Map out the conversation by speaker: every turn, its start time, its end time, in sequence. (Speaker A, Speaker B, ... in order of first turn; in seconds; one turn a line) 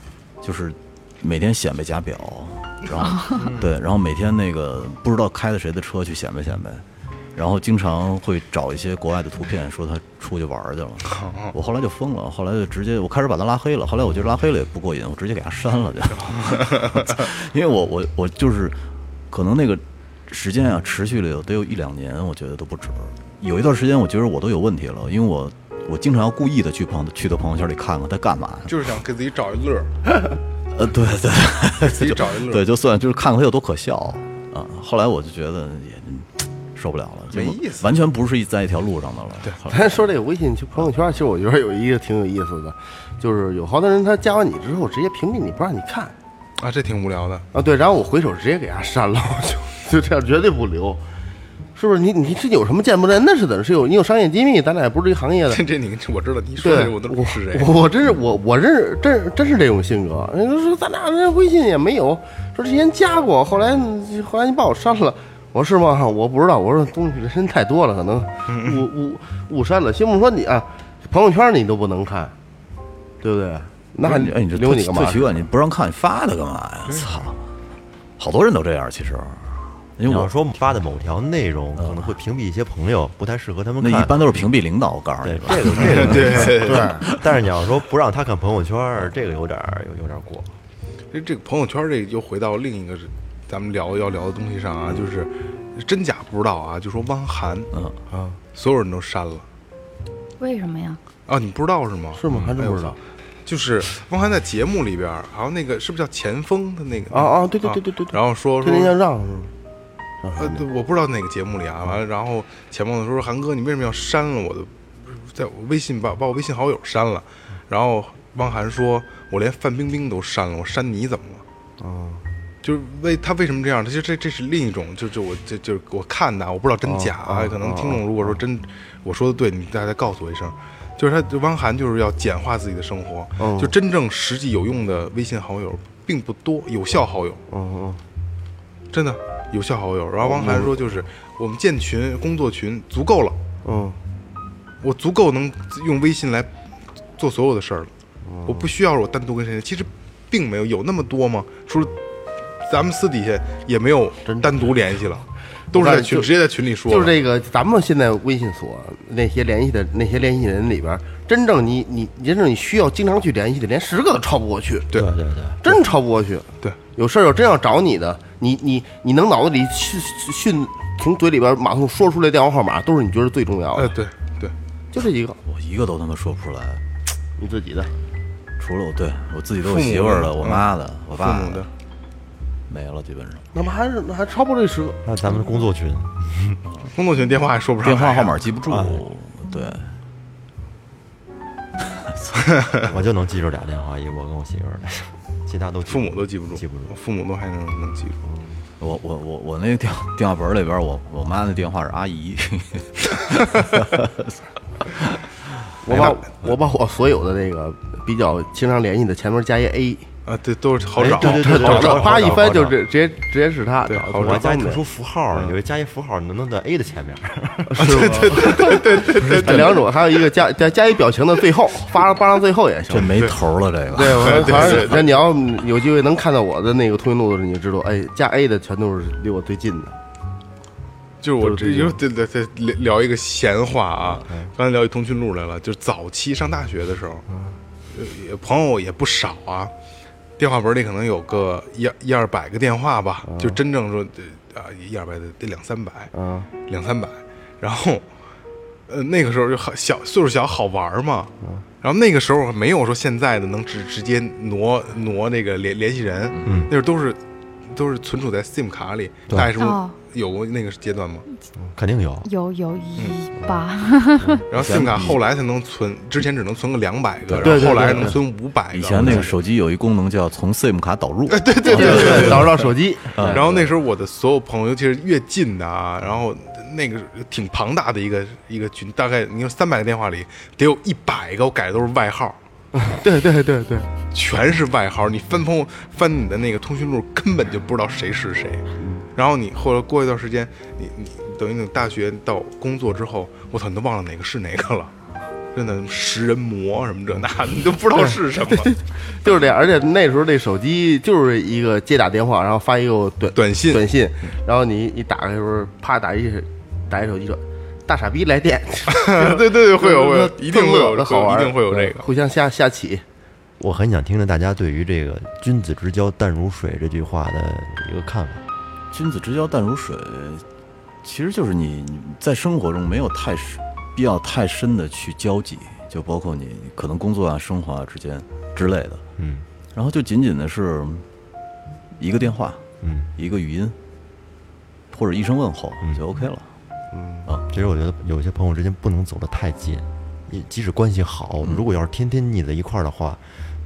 Speaker A: 0.4-18.8
Speaker B: 11.1-11.5
Speaker B: 16.3-17.1
Speaker A: 19.3-28.7
Speaker B: 28.7-29.9
Speaker A: 30.7-39.9
Speaker B: 31.8-32.6
Speaker B: 37.3-37.9
Speaker C: 39.7-46.1
Speaker B: 46.6-47.4
Speaker C: 47.5-51.0
Speaker C: 51.7-55.6
Speaker B: 55.5-57.8
Speaker C: 56.6-72.3
Speaker B: 68.5-68.8
Speaker C: 73.2-75.5
Speaker A: 74.0-77.4
Speaker A: 78.2-80.3
Speaker D: 80.0-84.1
Speaker A: 81.8-82.1
Speaker A: 83.8-87.2
Speaker D: 85.2-90.5
Speaker B: 85.8-86.9
Speaker C: 86.6-87.0
Speaker B: 91.1-97.7
Speaker C: 98.1-98.4
Speaker B: 98.5-99.5
Speaker E: 100.4-101.0
Speaker B: 101.3-109.0
Speaker C: 102.2-103.0
Speaker D: 102.3-102.5
Speaker C: 107.1-109.5
Speaker C: 110.2-110.6
Speaker B: 110.3-121.4
Speaker C: 121.8-122.2
Speaker B: 122.6-137.4
Speaker C: 126.8-128.4
Speaker C: 133.4-133.7
Speaker C: 137.5-138.0
Speaker B: 138.9-143.4
Speaker C: 140.2-140.7
Speaker C: 143.6-144.0
Speaker B: 144.8-146.5
Speaker B: 147.2-147.9
Speaker C: 148.2-148.7
Speaker B: 148.4-151.9
Speaker B: 152.6-157.1
Speaker C: 154.2-154.6
Speaker C: 155.7-156.3
Speaker C: 156.9-164.9
Speaker D: 164.9-165.6
Speaker C: 165.6-174.0
Speaker B: 173.7-174.5
Speaker C: 174.9-175.4
Speaker A: 175.4-176.8
Speaker C: 177.4-177.9
Speaker A: 178.6-181.7
Speaker B: 179.6-181.7
Speaker A: 182.7-183.5
Speaker C: 183.5-185.0
Speaker D: 185.0-186.6
Speaker B: 186.9-188.4
Speaker A: 187.8-189.9
Speaker D: 188.7-189.0
Speaker A: 191.8-192.9
Speaker D: 192.8-196.9
Speaker B: 195.9-198.2
Speaker C: 198.3-198.6
Speaker A: 198.8-205.3
Speaker C: 205.8-210.1
Speaker B: 210.2-212.5
Speaker D: 211.0-212.8
Speaker C: 211.1-214.8
Speaker B: 213.8-214.5
Speaker D: 214.2-218.0
Speaker C: 217.7-223.3
Speaker B: 217.8-220.2
Speaker A: 222.9-225.0
Speaker C: 223.9-230.0
Speaker B: 224.1-225.1
Speaker B: 231.2-237.2
Speaker C: 231.4-232.0
Speaker C: 237.3-237.6
Speaker B: 237.9-239.7
Speaker B: 240.4-246.1
Speaker C: 243.2-243.6
Speaker C: 246.1-246.5
Speaker B: 246.7-248.0
Speaker B: 248.9-257.2
Speaker A: 256.3-256.7
Speaker D: 256.4-256.7
Speaker B: 257.7-261.3
Speaker E: 259.6-259.9
Speaker D: 261.7-262.3
Speaker E: 262.2-264.4
Speaker B: 264.5-269.3
Speaker A: 264.5-265.2
Speaker A: 267.3-268.0
Speaker C: 267.4-268.2
Speaker A: 268.7-272.6
Speaker D: 269.0-269.3
Speaker B: 271.3-282.4
Speaker C: 271.6-273.7
Speaker A: 273.1-273.5
Speaker C: 282.7-283.9
Speaker B: 284.1-294.9
Speaker C: 288.8-289.1
Speaker B: 295.5-298.7
Speaker C: 298.5-313.0
Speaker B: 303.3-303.8
Speaker B: 308.9-312.1
Speaker D: 313.6-318.4
Speaker A: 318.9-320.4
Speaker A: 321.0-329.0
Speaker D: 329.2-329.4
Speaker A: 329.7-331.1
Speaker A: 332.0-332.6
Speaker D: 332.8-333.1
Speaker A: 333.1-333.8
Speaker A: 334.9-336.5
Speaker C: 336.9-337.3
Speaker D: 337.5-343.2